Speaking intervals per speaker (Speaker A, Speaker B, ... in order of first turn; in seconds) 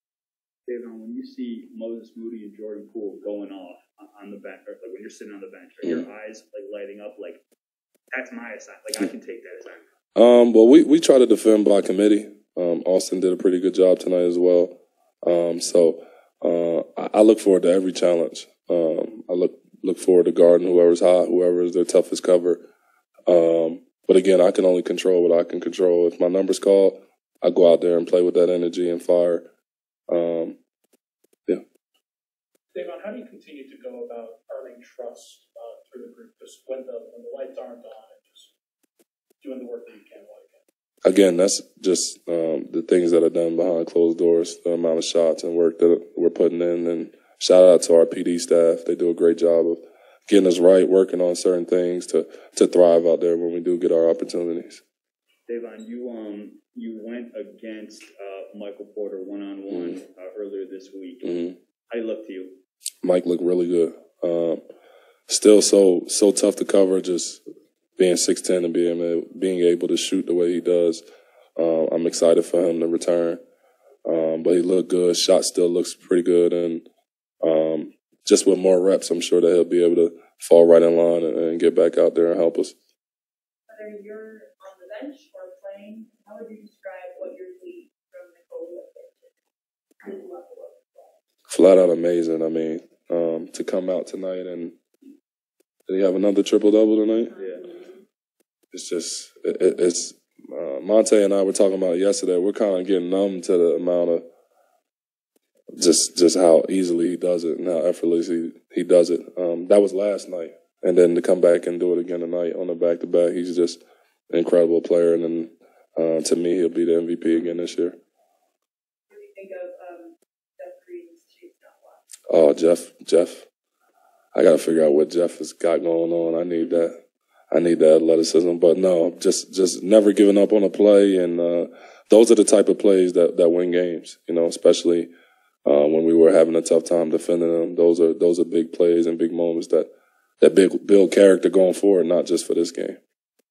Speaker A: 0.7-7.4, 8.1-9.8, 55.5-62.6, 97.4-97.6
Speaker B: 10.2-22.6, 23.3-29.5, 30.1-30.6, 41.0-54.8, 61.2-61.6, 63.0-64.6, 65.3-67.4, 68.0-71.0, 71.6-73.4, 74.0-76.9, 77.4-82.8, 91.5-94.8, 95.9-97.3, 98.7-104.2, 105.7-118.0, 122.3-123.5, 124.3-135.1, 135.7-143.0
Speaker C: 32.8-38.5, 39.4-40.6
Speaker D: 83.7-89.4, 90.0-91.2, 97.3-98.0, 119.1-122.0